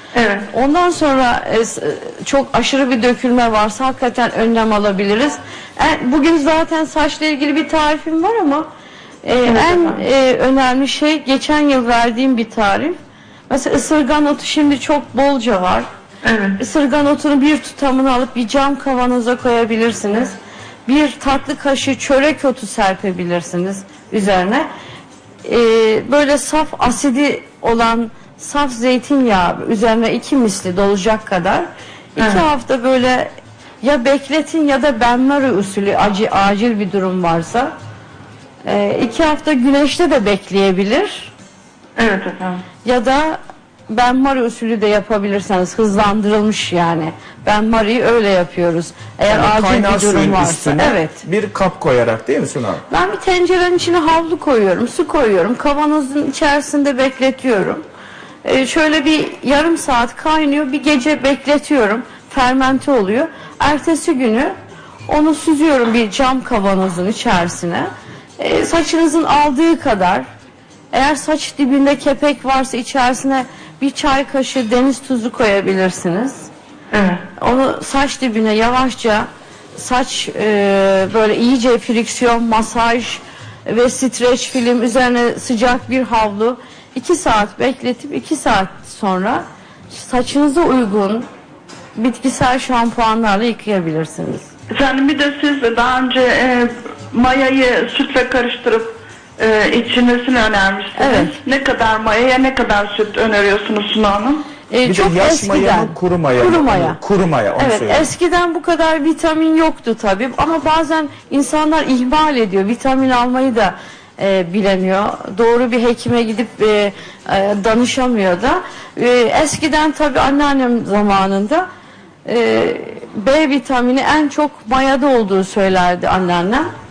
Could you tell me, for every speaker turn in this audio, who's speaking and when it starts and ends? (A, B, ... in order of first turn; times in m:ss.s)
0:00.1-0:00.5 A
0:00.5-0:08.6 B
0:09.2-0:13.0 B
0:09.4-0:10.0 A
0:13.5-0:15.9 B
0:16.2-0:16.6 A
0:16.6-0:24.7 B
0:25.4-0:37.7 B
0:32.2-0:32.4 A
0:38.6-0:41.3 B
0:42.0-0:42.6 A
0:42.8-0:51.2 B
0:49.3-0:52.8 C
0:52.9-0:57.8 B
0:58.4-1:04.5 B
1:05.1-1:10.2 B
1:10.9-1:16.5 B
1:16.9-1:17.2 A
1:17.4-1:31.3 B
1:32.0-1:34.5 B
1:34.7-1:44.4 A
1:41.0-1:41.4 B
1:44.7-1:47.0 B
1:44.8-1:48.1 C
1:47.6-2:01.6 B
2:02.2-2:06.7 B